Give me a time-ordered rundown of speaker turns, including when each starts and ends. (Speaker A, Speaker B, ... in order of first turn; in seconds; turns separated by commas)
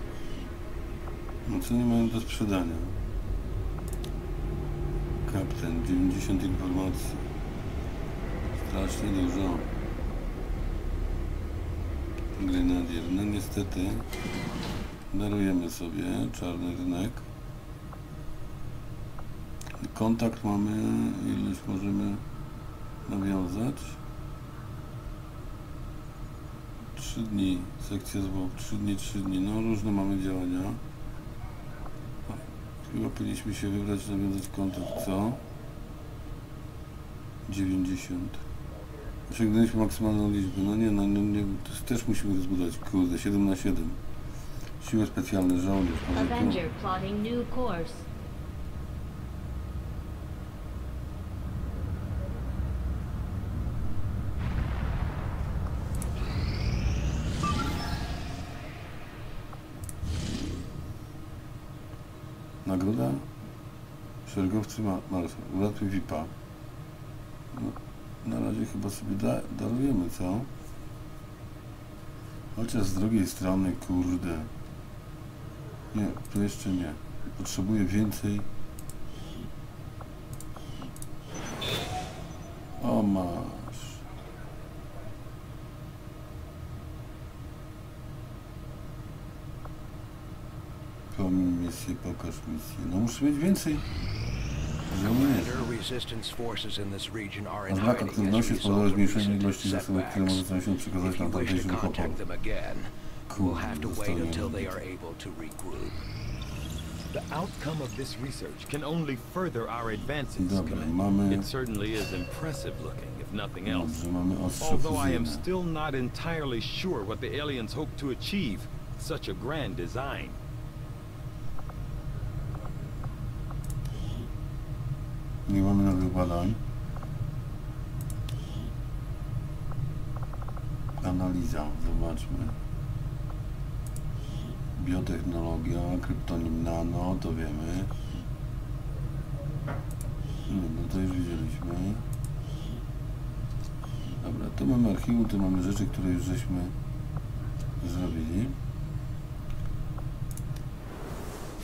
Speaker A: 1.4-2.9, Speaker A: 5.2-7.2, Speaker A: 8.6-9.7, Speaker A: 12.4-14.1, Speaker A: 15.1-17.3, Speaker A: 19.8-22.2, Speaker A: 23.1-24.0, Speaker A: 26.9-30.8, Speaker A: 32.3-35.4, Speaker A: 37.5-38.4, Speaker A: 39.3-44.0, Speaker A: 44.8-46.6, Speaker B: 46.1-48.1, Speaker A: 62.6-63.3, Speaker A: 64.2-66.3, Speaker A: 67.5-70.5, Speaker A: 72.5-74.5, Speaker A: 75.9-78.5, Speaker A: 82.8-84.0, Speaker A: 91.1-93.9, Speaker A: 94.9-95.8, Speaker C: 95.0-100.4, Speaker A: 97.7-102.2, Speaker C: 101.0-106.1, Speaker A: 103.3-104.8, Speaker D: 107.1-113.9, Speaker A: 110.4-111.5, Speaker A: 113.7-115.4, Speaker D: 114.6-120.4, Speaker A: 125.5-126.6, Speaker A: 131.0-132.6, Speaker A: 134.8-137.9, Speaker A: 140.5-142.1, Speaker A: 144.2-146.7, Speaker A: 147.8-148.6